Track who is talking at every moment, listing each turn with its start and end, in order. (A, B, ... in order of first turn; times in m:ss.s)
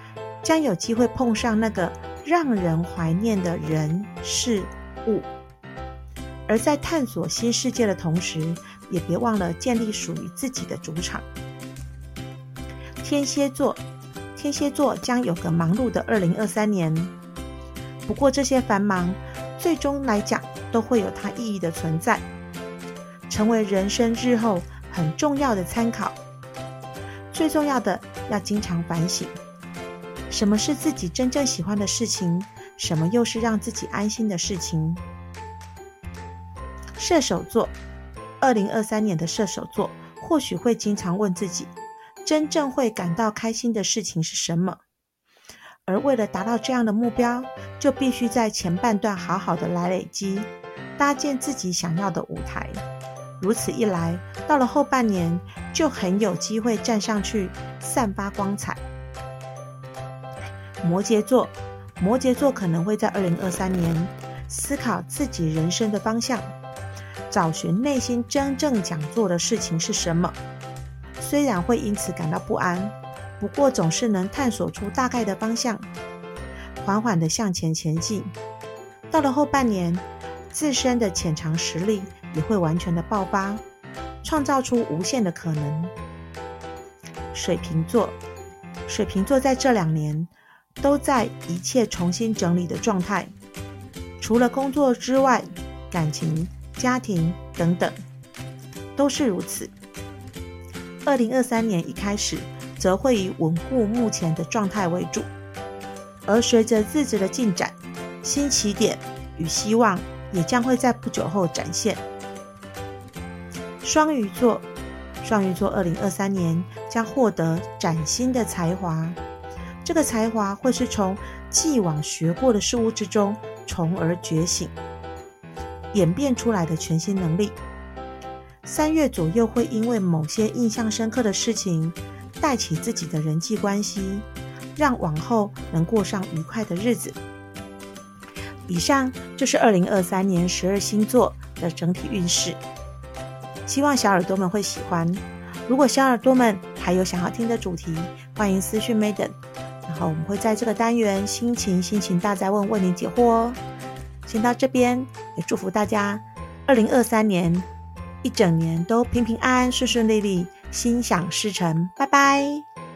0:00.4-0:05.3 A
0:06.5-0:11.2 A
0:13.0-0:13.8 A
0:14.4-0:17.1 A
0:18.1-0:22.2 A
0:23.3-0:26.2 A
0:27.3-0:29.3 A
0:30.3-0:35.0 A
0:37.0-0:37.7 A
0:38.4-0:41.7 A
0:42.2-0:44.8 A
0:45.8-0:52.8 A
0:53.4-0:58.8 A
1:00.8-1:06.5 A
1:07.3-1:10.3 A
1:11.2-1:15.8 A
1:16.8-1:18.3 A
1:19.1-1:23.6 A
1:24.2-1:25.9 A
1:27.3-1:28.2 A
1:28.9-1:30.3 A
1:30.8-1:33.3 A
1:34.2-1:38.0 A
1:39.0-1:39.7 A
1:41.0-1:45.3 A
1:46.2-1:52.0 A
1:53.8-1:54.6 A
1:55.2-1:59.2 A
1:59.8-2:04.7 A
2:05.9-2:07.6 A
2:08.6-2:17.2 A
2:18.7-2:22.6 A
2:23.6-2:29.3 A
2:29.8-2:33.6 A
2:34.2-2:37.6 A
2:38.2-2:42.6 A